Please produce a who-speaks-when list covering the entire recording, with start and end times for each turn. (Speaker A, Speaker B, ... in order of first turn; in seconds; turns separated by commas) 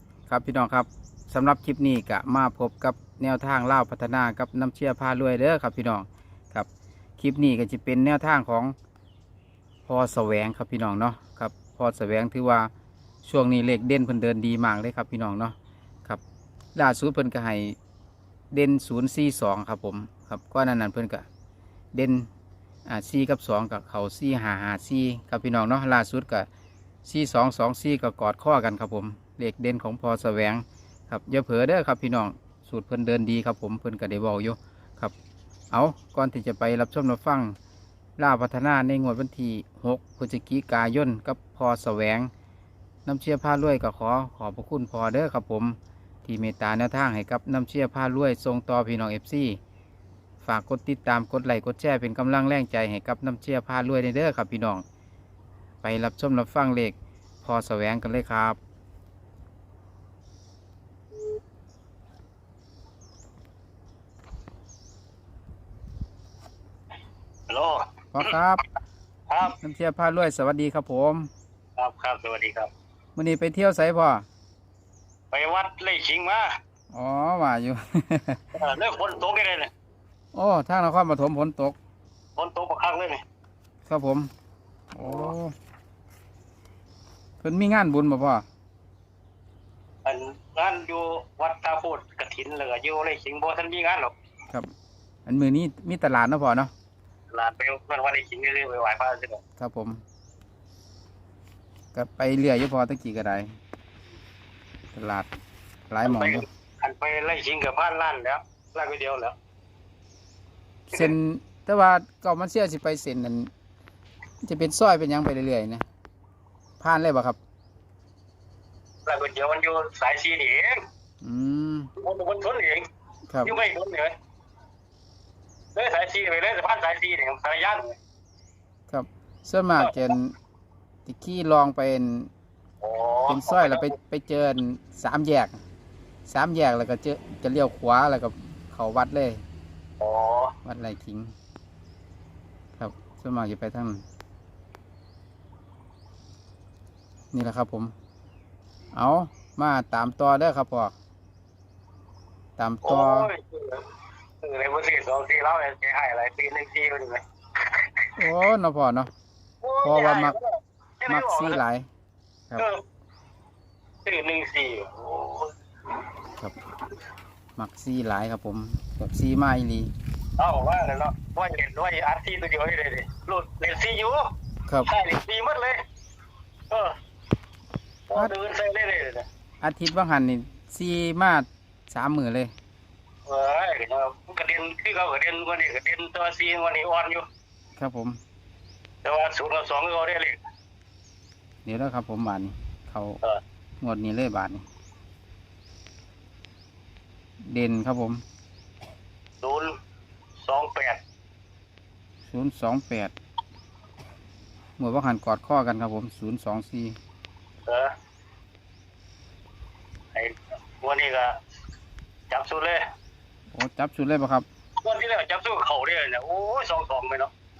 Speaker A: 0.3-8.8, Speaker A: 9.9-12.7, Speaker A: 13.2-16.2, Speaker A: 16.8-17.8, Speaker A: 18.5-21.3, Speaker A: 21.9-22.3, Speaker A: 22.9-26.5, Speaker A: 27.1-35.1, Speaker A: 35.7-37.6, Speaker A: 38.2-42.3, Speaker A: 43.1-49.6, Speaker A: 50.4-54.8, Speaker A: 55.8-58.6, Speaker B: 67.5-67.8, Speaker A: 68.1-68.7, Speaker B: 69.3-69.6, Speaker A: 69.4-71.3, Speaker B: 71.8-72.7, Speaker A: 73.2-74.2, Speaker B: 75.3-76.6, Speaker A: 76.9-78.4, Speaker B: 78.5-79.7, Speaker A: 80.3-81.8, Speaker B: 82.4-83.2, Speaker A: 83.9-84.3, Speaker A: 84.9-85.5, Speaker B: 85.0-85.3, Speaker A: 87.4-88.5, Speaker B: 90.0-94.1, Speaker A: 95.3-96.7, Speaker B: 97.3-99.4, Speaker A: 99.6-100.0, Speaker A: 101.9-103.5, Speaker A: 104.9-105.3, Speaker A: 105.9-106.5, Speaker B: 106.0-109.4, Speaker A: 110.9-113.5, Speaker A: 114.4-115.8, Speaker A: 116.8-117.4, Speaker B: 119.1-120.8, Speaker A: 121.2-121.9, Speaker B: 122.0-122.8, Speaker A: 123.3-123.5, Speaker B: 123.4-124.2, Speaker B: 125.8-128.0, Speaker A: 128.9-130.3, Speaker A: 131.1-132.3, Speaker B: 132.8-133.9, Speaker A: 133.3-135.6, Speaker A: 136.3-139.4, Speaker B: 140.0-140.5, Speaker A: 140.7-141.3, Speaker A: 142.8-144.1, Speaker A: 147.3-147.9, Speaker A: 148.9-150.9, Speaker A: 152.6-153.3, Speaker B: 152.8-153.9, Speaker B: 154.4-157.9, Speaker A: 158.2-159.1, Speaker B: 159.6-161.6, Speaker A: 159.8-160.4, Speaker A: 161.1-161.9, Speaker B: 162.6-162.8, Speaker B: 164.1-165.5, Speaker A: 167.6-169.9, Speaker B: 170.4-174.3, Speaker B: 174.8-175.8, Speaker B: 178.1-179.3, Speaker A: 179.6-182.5, Speaker B: 183.3-187.3, Speaker A: 187.8-188.2, Speaker B: 189.0-190.4, Speaker A: 191.7-193.2, Speaker A: 193.8-194.7, Speaker A: 197.5-198.2, Speaker B: 199.4-199.7, Speaker B: 200.4-201.0, Speaker A: 202.2-203.1, Speaker A: 204.8-207.0, Speaker B: 207.7-207.9, Speaker B: 210.1-211.4, Speaker B: 212.3-212.8, Speaker A: 213.5-214.5, Speaker B: 214.8-217.3